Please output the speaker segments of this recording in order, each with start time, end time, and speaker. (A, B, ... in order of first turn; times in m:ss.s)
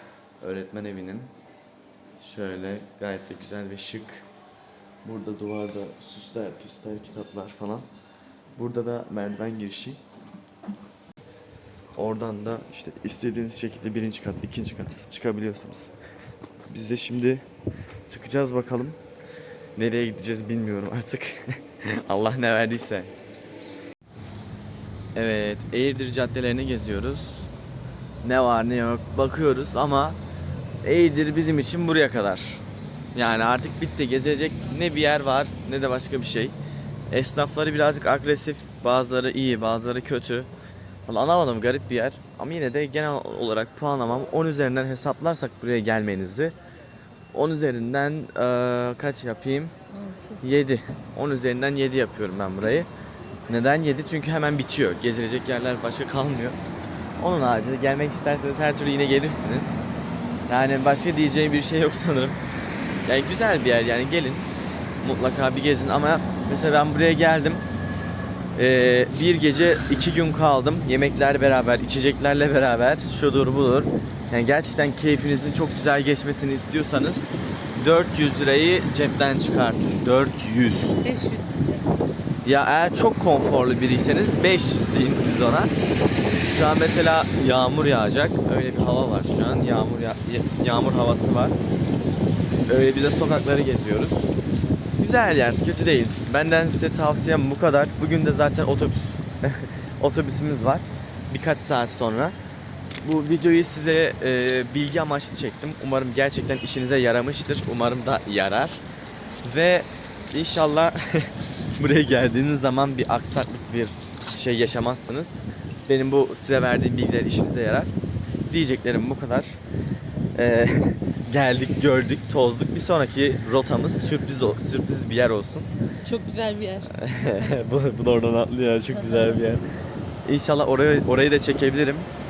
0:00.4-0:01.3 A
0:02.2-0:04.3 A
0:05.0-0:07.9 A
0:08.6-0:10.0 A
0:12.0-0:15.9 A
0:16.7-0:17.4 A
0:18.1-0:19.0 A
0:19.8-0:23.1 A
0:25.1-0:27.5 A
0:28.2-0:30.2 A
0:30.8-0:32.6 A
0:33.1-0:36.6 A
0:37.1-0:40.5 A
0:41.1-0:46.6 A
0:47.3-0:49.7 A
0:49.9-0:50.4 B
0:50.4-0:52.9 A
0:53.5-0:56.6 A
0:57.2-0:59.7 A
1:00.5-1:02.4 A
1:03.0-1:04.5 A
1:05.0-1:07.6 A
1:08.5-1:21.0 A
1:21.0-1:21.9 B
1:22.4-1:25.7 A
1:26.5-1:31.6 A
1:32.6-1:34.3 A
1:35.0-1:42.4 A
1:43.0-1:48.8 A
1:49.4-1:57.9 A
1:58.5-1:59.6 A
2:00.4-2:05.7 A
2:06.0-2:07.5 B
2:06.9-2:09.7 A
2:08.9-2:09.6 B
2:10.2-2:12.1 A